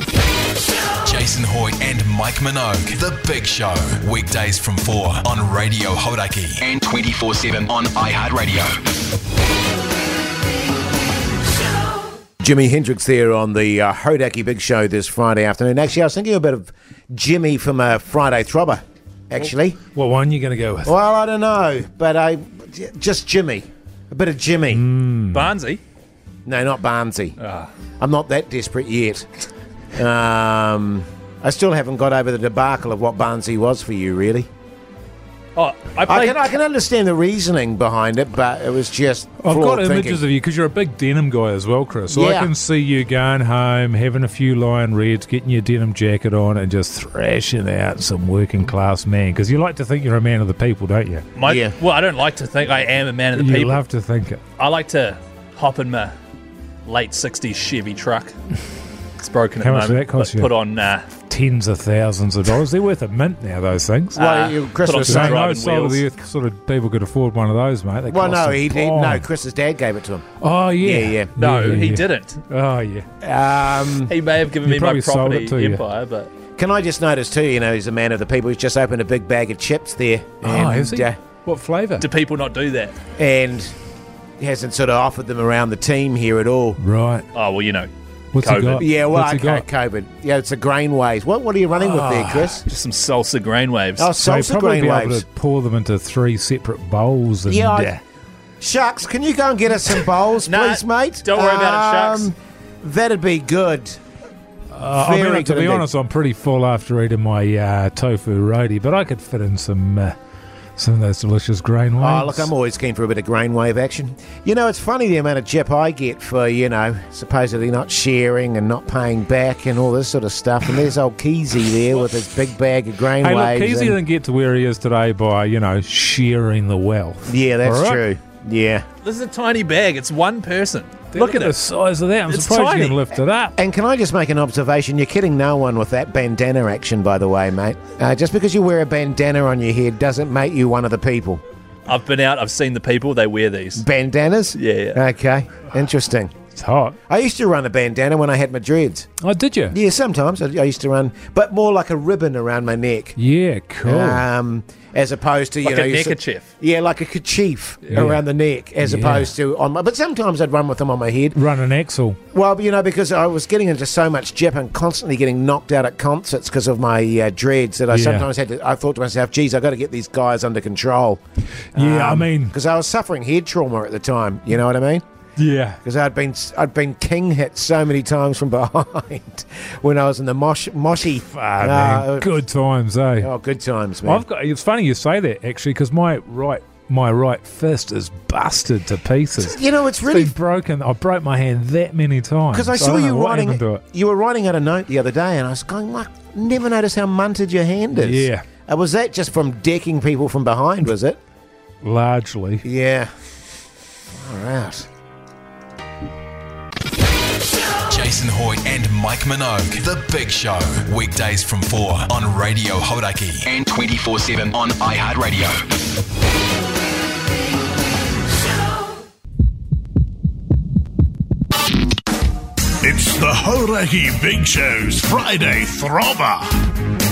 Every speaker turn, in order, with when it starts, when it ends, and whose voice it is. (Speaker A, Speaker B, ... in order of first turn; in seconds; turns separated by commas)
Speaker A: 1.0-8.9, Speaker B: 12.4-19.8, Speaker C: 19.9-20.9, Speaker B: 20.8-24.9, Speaker C: 24.7-25.5, Speaker D: 25.3-25.8, Speaker B: 26.4-27.4, Speaker D: 27.4-27.7, Speaker B: 28.0-29.3, Speaker B: 29.9-34.5, Speaker D: 35.5-36.5, Speaker B: 36.0-40.2, Speaker C: 39.4-51.2, Speaker B: 42.1-42.5, Speaker D: 51.4-53.8, Speaker B: 51.4-51.7, Speaker C: 53.3-54.4, Speaker D: 54.6-56.1, Speaker D: 56.9-58.3, Speaker D: 59.2-61.1, Speaker C: 59.6-60.5, Speaker C: 61.2-64.2, Speaker D: 64.1-66.0, Speaker B: 64.2-65.5, Speaker C: 65.0-69.2, Speaker B: 68.1-70.3, Speaker C: 70.4-73.1, Speaker B: 70.8-71.3, Speaker D: 71.4-72.4, Speaker B: 73.2-74.1, Speaker D: 74.1-76.3, Speaker C: 74.6-75.8, Speaker B: 76.6-81.2, Speaker C: 80.4-82.0, Speaker D: 82.0-82.9, Speaker B: 83.2-83.7, Speaker B: 84.4-86.8, Speaker C: 86.8-87.2, Speaker D: 87.3-88.8, Speaker C: 88.3-89.7, Speaker B: 88.8-92.6, Speaker C: 91.7-92.5, Speaker D: 92.7-94.1, Speaker B: 94.0-95.2, Speaker C: 94.2-98.0, Speaker B: 97.5-97.9, Speaker B: 98.6-104.0, Speaker D: 100.5-102.3, Speaker C: 104.7-110.1, Speaker B: 104.9-105.9, Speaker C: 110.8-112.5, Speaker B: 112.0-124.0, Speaker C: 123.2-128.0, Speaker B: 127.3-128.8, Speaker D: 129.0-131.6, Speaker C: 131.1-133.6, Speaker D: 132.3-133.0, Speaker B: 133.6-141.4, Speaker D: 141.8-143.8, Speaker B: 143.8-146.3, Speaker D: 144.5-145.0, Speaker C: 146.5-147.0, Speaker B: 147.1-149.1, Speaker C: 149.2-149.8, Speaker B: 149.7-153.2, Speaker C: 153.2-154.2, Speaker B: 153.8-161.4, Speaker D: 155.6-156.5, Speaker C: 157.9-158.2, Speaker C: 158.8-159.3, Speaker C: 161.3-162.2, Speaker B: 162.3-171.2, Speaker C: 167.9-168.3, Speaker C: 171.7-172.5, Speaker B: 171.7-175.0, Speaker C: 175.4-175.8, Speaker B: 175.8-182.3, Speaker C: 181.3-183.3, Speaker B: 183.2-184.2, Speaker C: 184.0-193.8, Speaker B: 189.4-190.3, Speaker B: 192.5-201.2, Speaker C: 197.9-198.4, Speaker C: 201.8-202.6, Speaker B: 202.6-203.1, Speaker B: 204.1-204.9, Speaker A: 207.9-215.7, Speaker E: 222.9-226.4